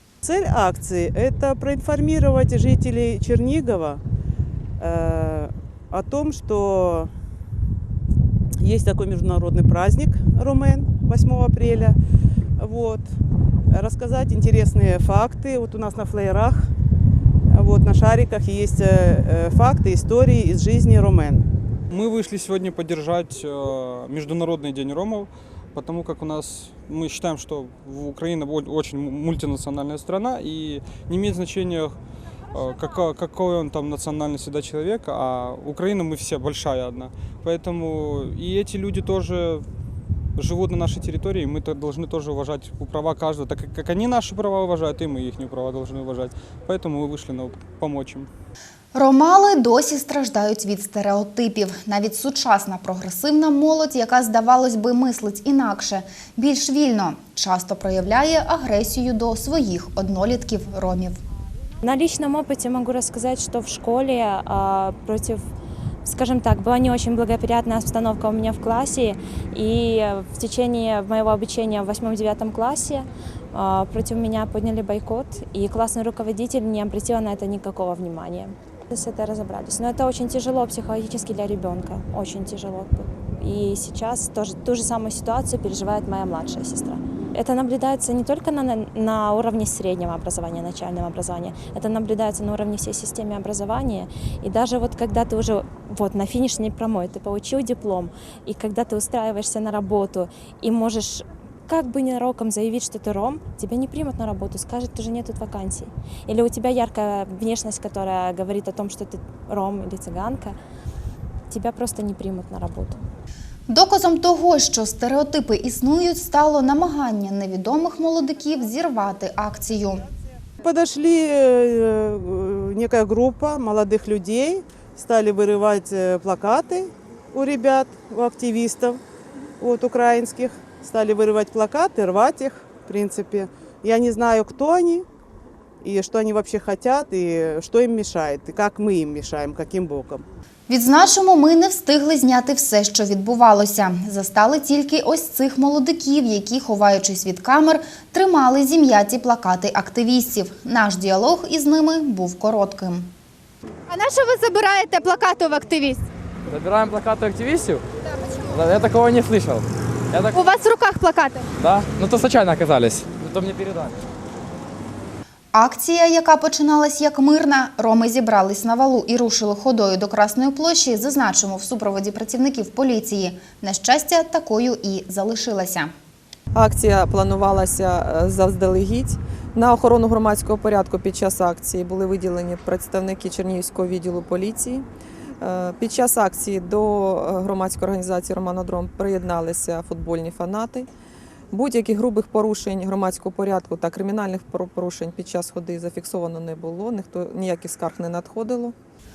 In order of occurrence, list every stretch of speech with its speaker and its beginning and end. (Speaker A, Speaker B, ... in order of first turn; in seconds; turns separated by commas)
Speaker A: 0.2-4.0, Speaker A: 4.8-7.1, Speaker A: 8.6-12.0, Speaker A: 12.6-13.0, Speaker A: 13.7-16.7, Speaker A: 17.5-21.5, Speaker B: 21.9-32.0, Speaker B: 32.5-39.7, Speaker B: 40.4-48.3, Speaker C: 48.9-61.2, Speaker D: 61.8-65.4, Speaker D: 66.0-110.6, Speaker D: 111.5-113.0, Speaker C: 113.7-120.1, Speaker A: 120.6-129.0, Speaker A: 129.6-135.1, Speaker A: 135.8-140.2, Speaker C: 140.7-153.1, Speaker E: 153.9-156.1, Speaker F: 156.5-157.8, Speaker E: 158.0-158.6, Speaker F: 158.5-160.4, Speaker E: 160.3-161.5, Speaker F: 161.6-164.0, Speaker C: 165.5-175.9, Speaker G: 176.5-184.8, Speaker G: 185.4-190.9, Speaker G: 191.5-198.8